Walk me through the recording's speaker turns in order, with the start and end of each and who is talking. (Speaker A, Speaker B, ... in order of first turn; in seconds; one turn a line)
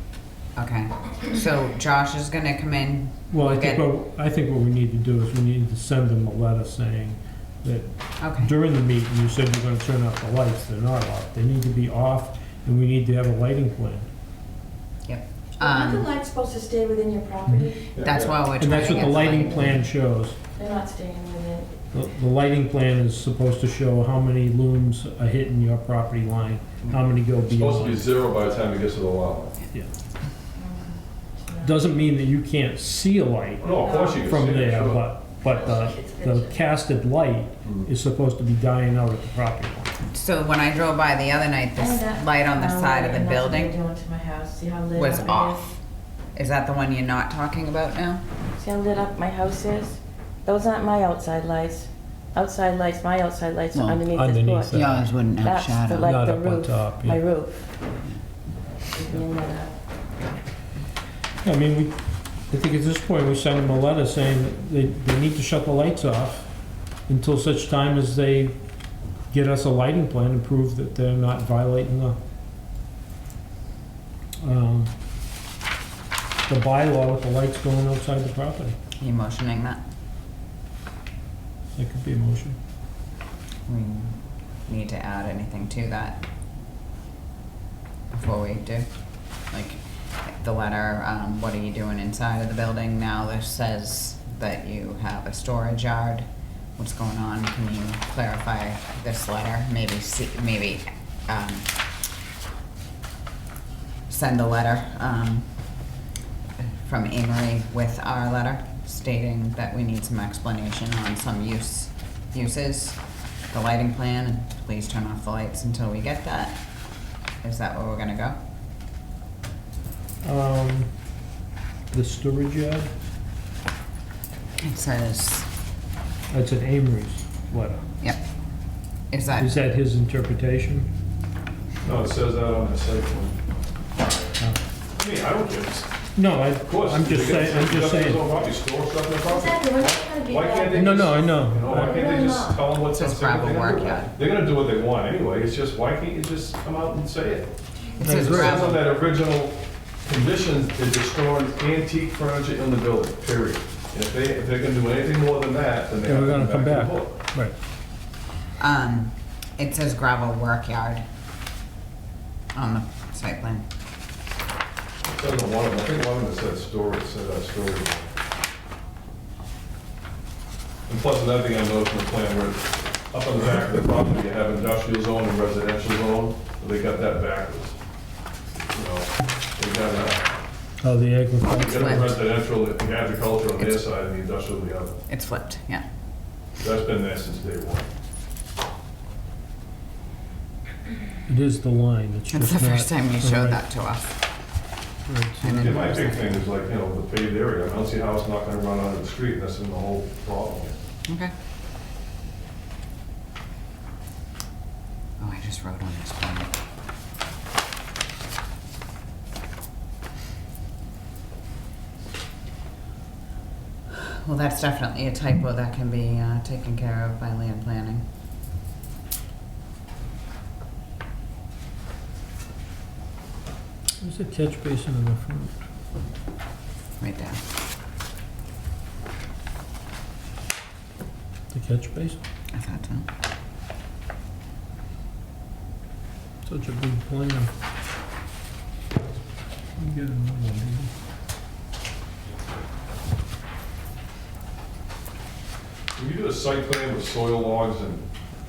Speaker A: 0.6-3.9
Speaker B: 3.3-14.1
Speaker A: 8.2-8.5
Speaker A: 15.1-16.1
Speaker C: 15.6-17.9
Speaker D: 17.9-18.4
Speaker A: 18.0-19.7
Speaker B: 18.6-20.4
Speaker C: 20.6-21.8
Speaker B: 21.9-28.1
Speaker D: 27.5-29.6
Speaker C: 30.6-31.8
Speaker B: 31.6-39.9
Speaker D: 33.6-35.0
Speaker C: 33.8-34.3
Speaker C: 35.4-36.6
Speaker A: 40.0-43.8
Speaker C: 41.8-45.6
Speaker A: 45.0-45.8
Speaker A: 46.4-48.2
Speaker C: 48.6-54.8
Speaker A: 53.7-54.1
Speaker B: 54.1-55.1
Speaker A: 54.7-56.1
Speaker C: 55.3-57.7
Speaker B: 56.0-57.2
Speaker C: 58.9-59.7
Speaker B: 61.4-62.0
Speaker B: 62.5-66.5
Speaker B: 67.1-68.5
Speaker B: 69.3-72.2
Speaker B: 74.4-74.9
Speaker B: 76.5-78.8
Speaker A: 79.0-79.8
Speaker B: 81.8-82.6
Speaker A: 83.7-86.2
Speaker A: 88.1-88.9
Speaker A: 89.5-101.7
Speaker A: 104.1-105.5
Speaker A: 106.6-113.0
Speaker A: 113.5-116.6
Speaker A: 117.4-118.4
Speaker B: 120.2-120.9
Speaker B: 121.9-122.9
Speaker A: 124.6-125.5
Speaker B: 126.3-127.8
Speaker A: 129.1-129.6
Speaker B: 129.4-130.9
Speaker D: 131.8-133.4
Speaker D: 134.9-135.9
Speaker B: 136.2-138.2
Speaker D: 136.7-147.5
Speaker C: 139.3-142.7
Speaker B: 140.8-142.0
Speaker A: 142.8-144.1
Speaker B: 148.0-148.8
Speaker D: 148.0-157.2
Speaker A: 148.1-148.8
Speaker B: 156.1-157.6
Speaker A: 158.6-161.0
Speaker A: 162.5-163.7
Speaker D: 165.1-168.1
Speaker D: 170.9-177.8
Speaker D: 178.7-180.3
Speaker B: 180.8-182.2
Speaker D: 181.6-185.0
Speaker A: 181.7-182.1
Speaker A: 185.1-185.9
Speaker D: 186.6-187.9
Speaker B: 191.3-193.6
Speaker A: 192.3-194.2
Speaker B: 195.1-195.8
Speaker A: 195.4-196.3
Speaker D: 195.5-200.8
Speaker A: 201.1-201.3
Speaker A: 205.2-206.5
Speaker A: 213.9-218.1
Speaker B: 224.0-225.6
Speaker A: 227.0-227.4
Speaker B: 231.5-232.2
Speaker A: 232.5-233.1
Speaker B: 236.5-237.5
Speaker B: 239.8-240.9
Speaker D: 246.0-248.1